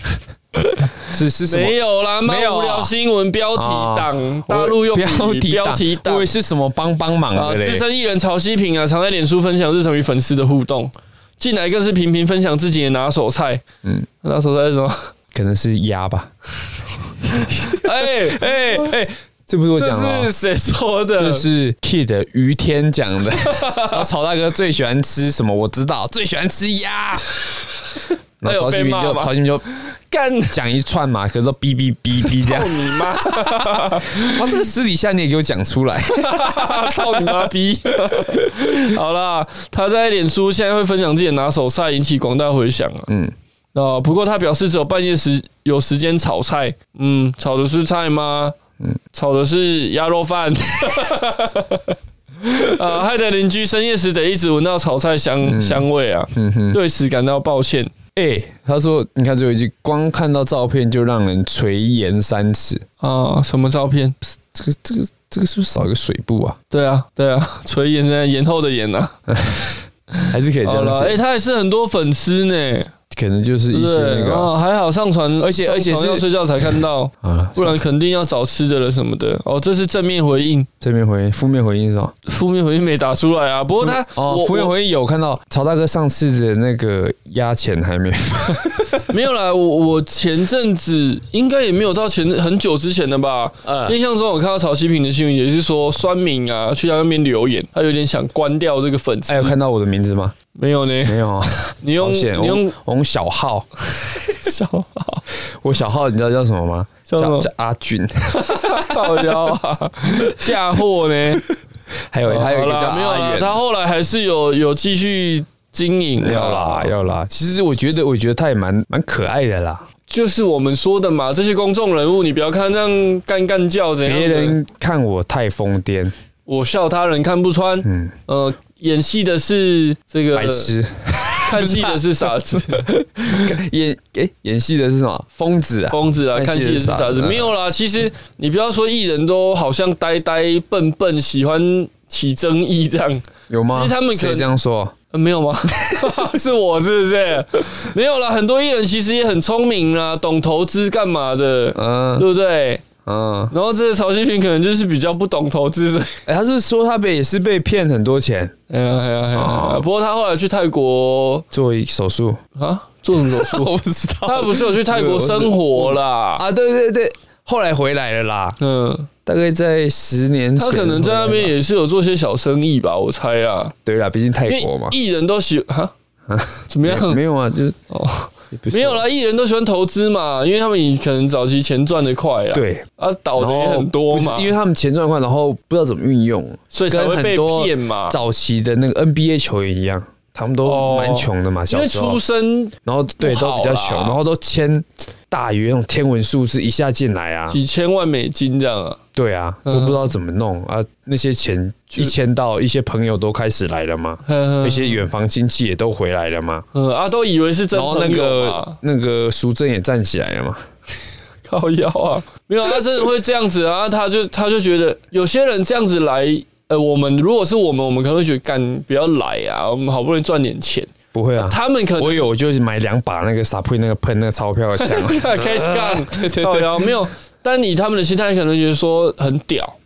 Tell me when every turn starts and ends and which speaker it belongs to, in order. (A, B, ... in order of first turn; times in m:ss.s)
0:00.6-0:00.9 A
0:01.1-0:02.9 B
0:01.5-0:06.3 A
0:03.6-0:07.8 B
0:07.3-0:13.6 A
0:14.2-0:15.1 A
0:15.3-0:16.3 B
0:17.3-0:20.3 B
0:17.6-0:18.9 A
0:19.8-0:21.5 A
0:21.2-0:27.3 B
0:23.4-0:24.0 A
0:28.4-0:29.7 B
0:28.4-0:30.6 A
0:30.5-0:37.5 B
0:32.2-0:34.4 A
0:36.1-0:43.1 A
0:38.1-0:38.5 B
0:43.1-0:43.3 B
0:43.8-0:48.6 A
0:49.1-0:57.9 A
0:55.4-0:56.8 B
0:58.2-1:02.8 B
1:03.0-1:04.2 A
1:04.5-1:06.6 B
1:06.7-1:09.2 A
1:09.3-1:09.7 B
1:10.2-1:12.9 A
1:10.3-1:11.2 B
1:13.1-1:14.5 B
1:13.7-1:20.7 A
1:15.4-1:16.2 B
1:17.2-1:17.8 B
1:20.8-1:22.2 B
1:22.3-1:24.7 A
1:23.8-1:29.1 B
1:29.1-1:39.6 A
1:33.6-1:34.0 B
1:39.3-1:40.4 B
1:40.6-1:41.2 A
1:41.1-1:43.7 B
1:41.8-1:42.7 A
1:44.2-1:45.2 A
1:45.6-1:49.0 B
1:47.1-1:47.5 A
1:48.3-1:51.4 A
1:52.1-1:53.6 B
1:52.3-1:56.9 A
1:56.2-1:59.9 B
2:00.1-2:04.6 A
2:04.0-2:06.1 B
2:06.5-2:10.7 A
2:07.8-2:08.2 B
2:10.3-2:17.5 B
2:11.4-2:12.8 A
2:15.9-2:24.5 A
2:23.5-2:24.9 B
2:25.1-2:32.8 A
2:25.8-2:26.0 B
2:31.8-2:32.3 B
2:33.0-2:33.5 B
2:33.5-2:36.2 A
2:36.3-2:38.6 B
2:38.7-2:41.4 A
2:39.3-2:39.8 B
2:41.5-2:42.4 B
2:42.6-2:43.7 A
2:43.2-2:48.6 B
2:44.3-2:46.4 A
2:48.6-2:49.1 A
2:49.2-2:51.6 B
2:50.6-2:53.7 A
2:53.8-2:55.0 B
2:54.5-2:55.9 A
2:56.3-2:57.8 B
2:56.7-2:57.2 A
2:57.9-3:04.5 A
2:58.5-2:59.0 B
3:02.5-3:02.9 B
3:03.4-3:12.2 B
3:06.7-3:08.2 A
3:10.6-3:14.2 A
3:12.8-3:17.6 B
3:17.5-3:19.0 A
3:19.2-3:26.7 B
3:19.7-3:20.1 A
3:24.3-3:25.0 A
3:26.7-3:28.8 A
3:27.7-3:30.6 B
3:31.5-3:42.2 A
3:41.1-3:46.9 B
3:44.8-3:49.8 A